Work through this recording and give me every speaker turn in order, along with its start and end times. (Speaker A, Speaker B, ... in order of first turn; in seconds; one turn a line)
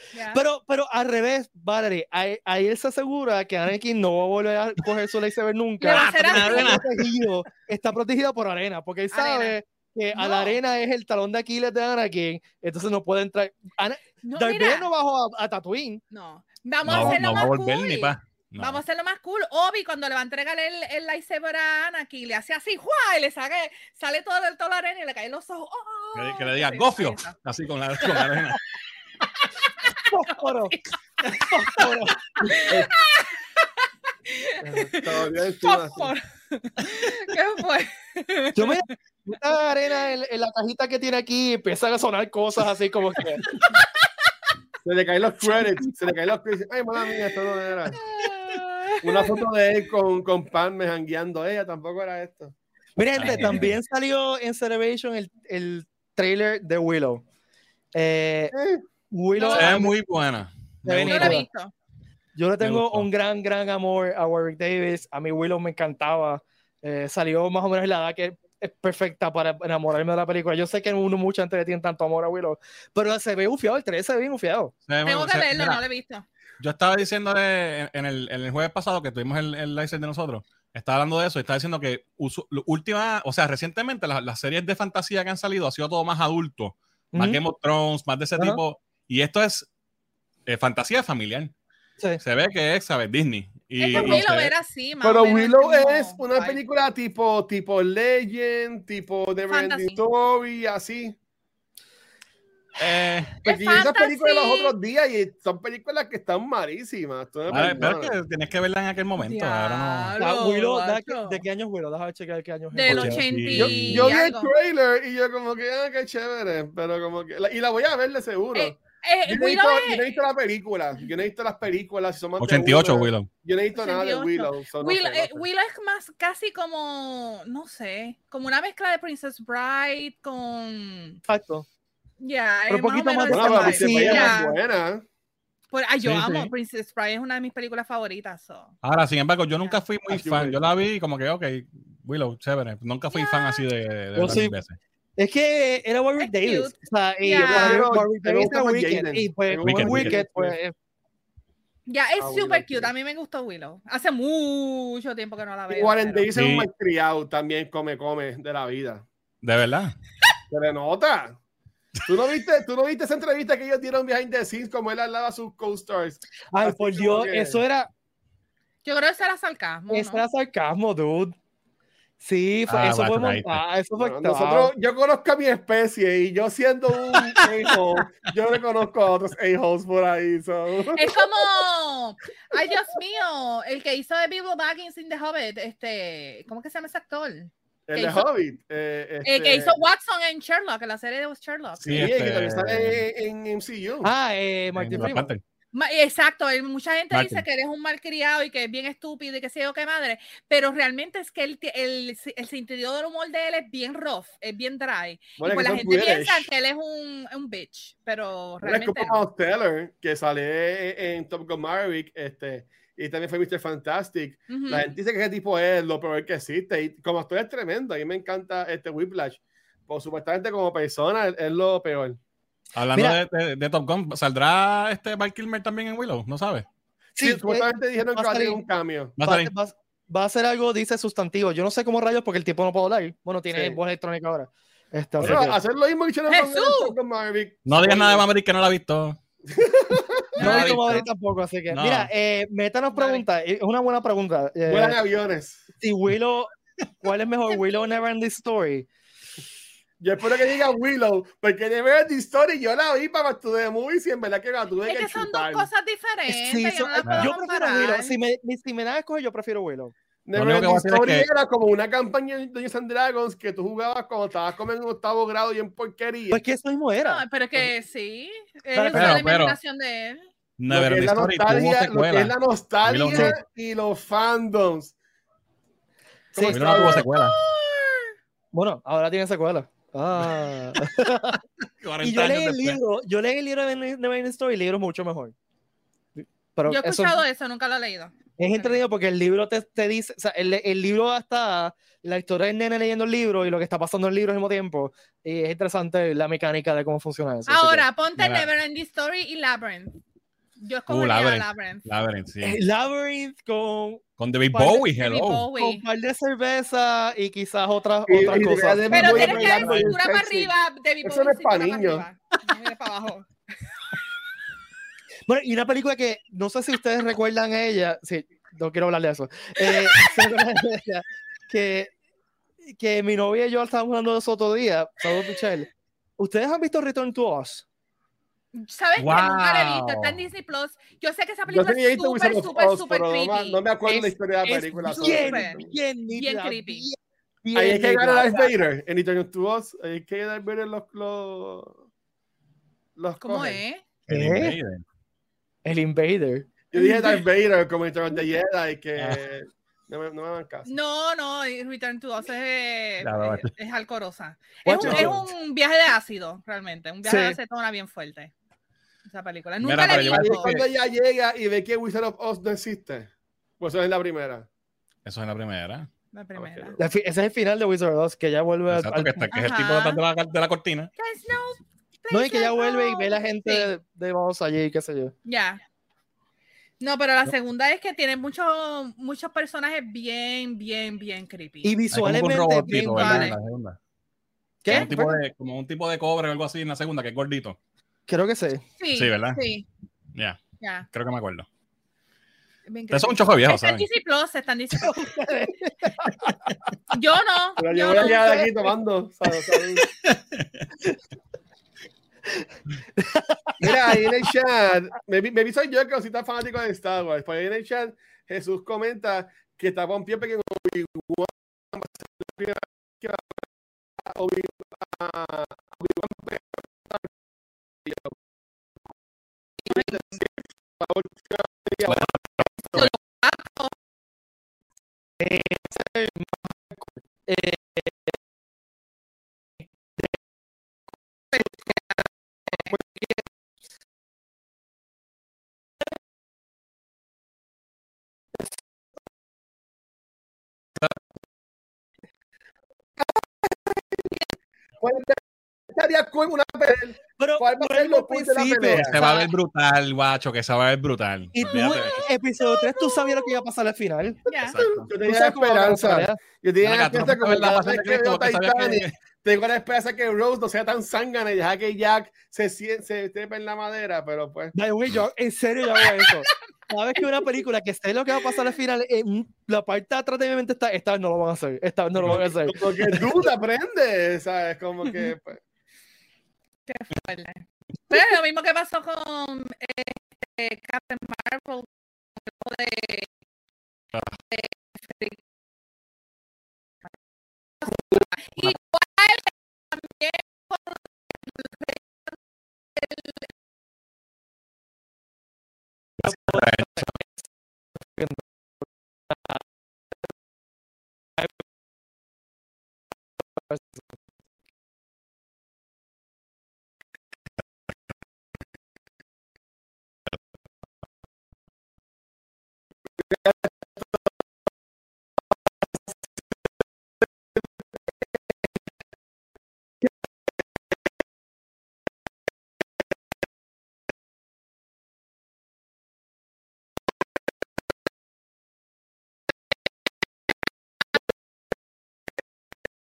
Speaker A: 0.1-0.4
Speaker B: 0.3-16.0
Speaker A: 5.8-6.8
Speaker C: 5.8-7.2
Speaker A: 9.1-9.6
Speaker A: 10.1-10.6
Speaker A: 14.2-14.9
Speaker A: 16.1-27.4
Speaker C: 16.8-18.8
Speaker B: 16.9-17.2
Speaker C: 26.1-28.6
Speaker A: 29.4-30.1
Speaker B: 30.0-30.7
Speaker A: 30.7-38.9
Speaker B: 31.3-32.6
Speaker D: 32.6-32.9
Speaker D: 34.6-36.1
Speaker B: 38.5-43.5
Speaker A: 43.5-43.9
Speaker D: 44.8-48.0
Speaker A: 47.9-49.4
Speaker D: 49.0-52.5
Speaker B: 53.0-57.2
Speaker C: 53.1-53.7
Speaker B: 57.9-58.5
Speaker D: 58.5-58.8
Speaker B: 59.1-59.9
Speaker A: 59.3-59.9
Speaker C: 59.5-61.5
Speaker B: 60.8-61.5
Speaker A: 61.1-61.7
Speaker B: 62.3-74.7
Speaker C: 62.6-63.1
Speaker C: 74.9-75.8
Speaker A: 75.0-76.2
Speaker C: 76.6-89.7
Speaker B: 87.1-87.4
Speaker C: 90.5-91.5
Speaker C: 92.2-94.5
Speaker A: 93.8-96.6
Speaker D: 93.9-94.2
Speaker D: 95.0-101.2
Speaker A: 99.5-100.0
Speaker C: 102.8-103.4
Speaker D: 103.4-108.1
Speaker A: 103.4-104.7
Speaker C: 107.5-110.1
Speaker A: 109.2-111.4
Speaker B: 110.2-113.2
Speaker A: 112.7-114.5
Speaker C: 112.9-114.1
Speaker D: 113.5-125.5
Speaker A: 118.5-120.2
Speaker C: 122.4-123.3
Speaker A: 123.7-131.2
Speaker B: 131.3-131.7
Speaker A: 132.2-134.6
Speaker B: 132.7-134.4
Speaker D: 133.3-135.0
Speaker A: 135.7-138.7
Speaker C: 136.0-136.5
Speaker C: 138.8-144.8
Speaker D: 140.1-140.6
Speaker A: 143.1-143.6
Speaker B: 144.2-144.5
Speaker B: 145.2-150.7
Speaker A: 146.2-147.9
Speaker D: 147.4-150.6
Speaker C: 149.6-150.2
Speaker A: 151.9-156.3
Speaker D: 152.2-152.9
Speaker D: 155.7-159.1
Speaker C: 156.3-156.7
Speaker C: 159.4-159.9
Speaker D: 160.5-161.4
Speaker D: 162.0-167.6
Speaker B: 166.5-167.9
Speaker A: 168.8-170.3
Speaker B: 169.9-171.3
Speaker B: 172.2-174.7
Speaker C: 172.7-173.6
Speaker D: 174.0-181.2
Speaker C: 177.1-177.7
Speaker A: 180.9-188.3
Speaker D: 187.9-189.7
Speaker A: 189.2-191.8
Speaker D: 191.8-194.1
Speaker C: 191.8-193.0
Speaker B: 194.0-195.3
Speaker C: 194.7-195.4
Speaker A: 195.7-209.2
Speaker C: 197.1-197.4
Speaker D: 205.4-206.5
Speaker D: 208.6-222.2
Speaker A: 214.5-214.9
Speaker C: 222.7-226.7
Speaker B: 222.9-223.2
Speaker B: 227.2-228.6
Speaker D: 227.2-229.1
Speaker C: 229.2-229.5
Speaker B: 229.2-235.6
Speaker D: 233.5-233.8
Speaker C: 235.2-235.4
Speaker D: 235.2-238.2
Speaker A: 236.3-236.9
Speaker C: 237.7-239.2
Speaker D: 239.5-240.4
Speaker C: 240.4-241.1
Speaker B: 240.4-245.0
Speaker C: 241.7-242.1
Speaker A: 242.9-243.2
Speaker D: 244.7-245.7
Speaker B: 245.8-248.9
Speaker D: 250.0-255.7
Speaker A: 254.8-258.1
Speaker B: 256.3-259.9
Speaker C: 257.1-257.3
Speaker D: 260.3-266.4
Speaker C: 260.3-261.3
Speaker B: 266.3-267.7
Speaker A: 267.0-270.2
Speaker B: 268.7-269.2
Speaker C: 268.9-269.6
Speaker C: 270.6-273.3
Speaker D: 270.7-274.9
Speaker B: 273.1-273.4
Speaker B: 276.3-277.1
Speaker D: 276.3-277.1
Speaker C: 276.5-277.4
Speaker A: 277.5-278.1
Speaker B: 278.5-281.4
Speaker C: 281.8-282.8
Speaker B: 282.0-285.3
Speaker B: 286.2-287.2
Speaker A: 286.7-288.8
Speaker B: 288.4-297.8
Speaker A: 297.5-300.0
Speaker C: 298.2-298.5
Speaker A: 300.6-301.8
Speaker C: 300.9-302.6
Speaker B: 302.4-304.9
Speaker C: 304.2-305.5
Speaker A: 304.9-305.8
Speaker B: 305.6-309.9
Speaker D: 308.1-310.5
Speaker A: 308.9-313.3
Speaker D: 311.0-312.1
Speaker B: 315.3-321.9
Speaker B: 322.6-327.6
Speaker A: 328.5-333.6
Speaker C: 329.0-330.2
Speaker D: 331.5-335.7
Speaker B: 333.9-338.5
Speaker A: 334.9-336.9
Speaker D: 337.6-341.8
Speaker D: 342.9-343.6
Speaker A: 343.2-343.8
Speaker C: 344.1-344.8
Speaker B: 344.1-344.6
Speaker B: 345.6-347.2
Speaker D: 346.7-350.7
Speaker A: 350.6-358.3
Speaker C: 353.0-353.5
Speaker B: 354.6-355.2
Speaker D: 354.8-355.1
Speaker B: 357.1-357.4
Speaker A: 359.1-360.5
Speaker C: 359.6-360.6
Speaker D: 359.8-364.5
Speaker C: 365.1-365.9
Speaker A: 366.1-366.8
Speaker D: 366.4-366.8
Speaker B: 366.8-369.3
Speaker C: 368.7-370.9
Speaker A: 369.3-370.0
Speaker A: 371.0-373.7
Speaker B: 372.1-375.1
Speaker A: 375.2-375.6
Speaker A: 376.8-381.8
Speaker B: 381.6-383.4
Speaker C: 381.9-383.8
Speaker A: 382.6-383.4
Speaker B: 384.6-385.2
Speaker A: 384.7-384.9
Speaker C: 384.7-387.6
Speaker B: 388.1-388.6
Speaker A: 388.8-389.7
Speaker C: 388.9-389.4
Speaker C: 390.1-391.4
Speaker A: 390.6-390.9
Speaker A: 392.7-395.3
Speaker C: 392.9-393.9
Speaker B: 394.8-396.3
Speaker A: 396.9-398.5
Speaker D: 397.6-399.9
Speaker B: 397.9-398.5
Speaker C: 400.0-400.6
Speaker B: 402.3-404.0
Speaker D: 403.6-413.4
Speaker D: 414.0-417.1
Speaker D: 417.8-418.1
Speaker D: 419.6-422.1
Speaker A: 419.7-420.2
Speaker C: 421.8-422.9
Speaker A: 422.7-423.8
Speaker B: 425.2-428.1
Speaker A: 431.3-432.7
Speaker B: 432.7-433.3
Speaker D: 444.8-449.0
Speaker B: 447.2-449.3
Speaker C: 448.7-452.1
Speaker B: 451.3-454.2
Speaker A: 452.4-453.3
Speaker A: 454.3-454.6
Speaker C: 454.4-454.9
Speaker D: 454.6-464.6
Speaker B: 455.0-456.2
Speaker C: 456.6-458.9
Speaker B: 464.6-473.1
Speaker A: 466.0-466.3
Speaker D: 472.0-475.4
Speaker A: 476.6-483.1
Speaker A: 484.3-485.2
Speaker A: 487.6-491.8
Speaker A: 492.8-493.2
Speaker C: 496.0-496.9
Speaker B: 496.0-497.0
Speaker B: 497.9-498.2
Speaker B: 499.1-499.4
Speaker B: 503.5-503.8